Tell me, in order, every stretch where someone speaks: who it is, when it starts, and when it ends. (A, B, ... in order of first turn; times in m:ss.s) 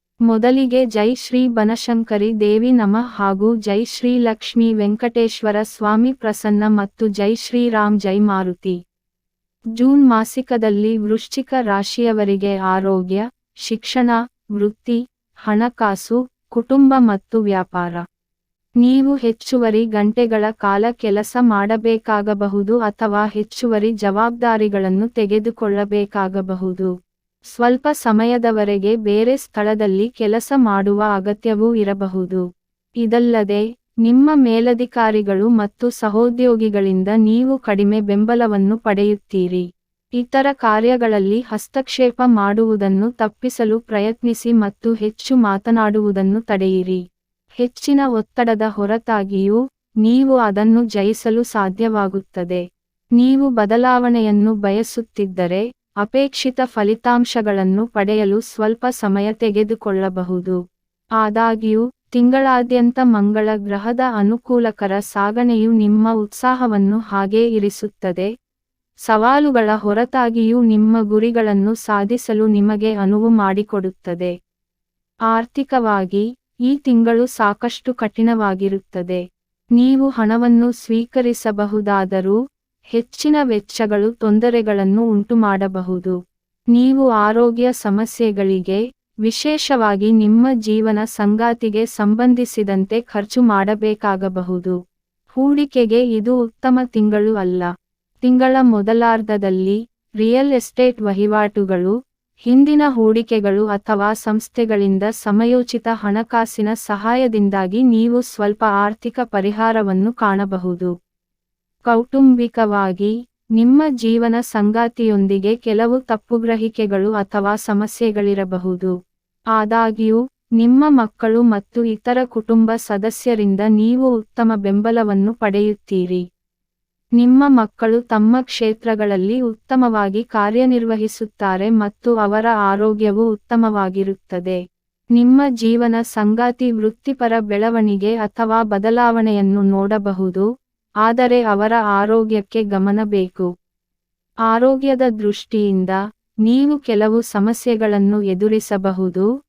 0:00.3-0:08.8 A
0:09.8-0:18.0 A
0:18.8-0:26.9 A
0:27.6-0:32.4 A
0:33.0-0:39.7 A
0:40.2-0:47.0 A
0:47.6-0:52.6 A
0:53.2-1:00.6 A
1:01.2-1:08.3 A
1:09.1-1:14.3 A
1:15.3-1:19.2 A
1:19.8-1:22.4 A
1:22.9-1:26.2 A
1:26.7-1:34.8 A
1:35.4-1:37.7 A
1:38.2-1:41.9 A
1:42.5-1:50.9 A
1:51.9-1:58.9 A
1:59.6-2:06.2 A
2:07.2-2:14.6 A
2:15.2-2:20.4 A
2:21.0-2:23.5 A
2:24.5-2:29.3 A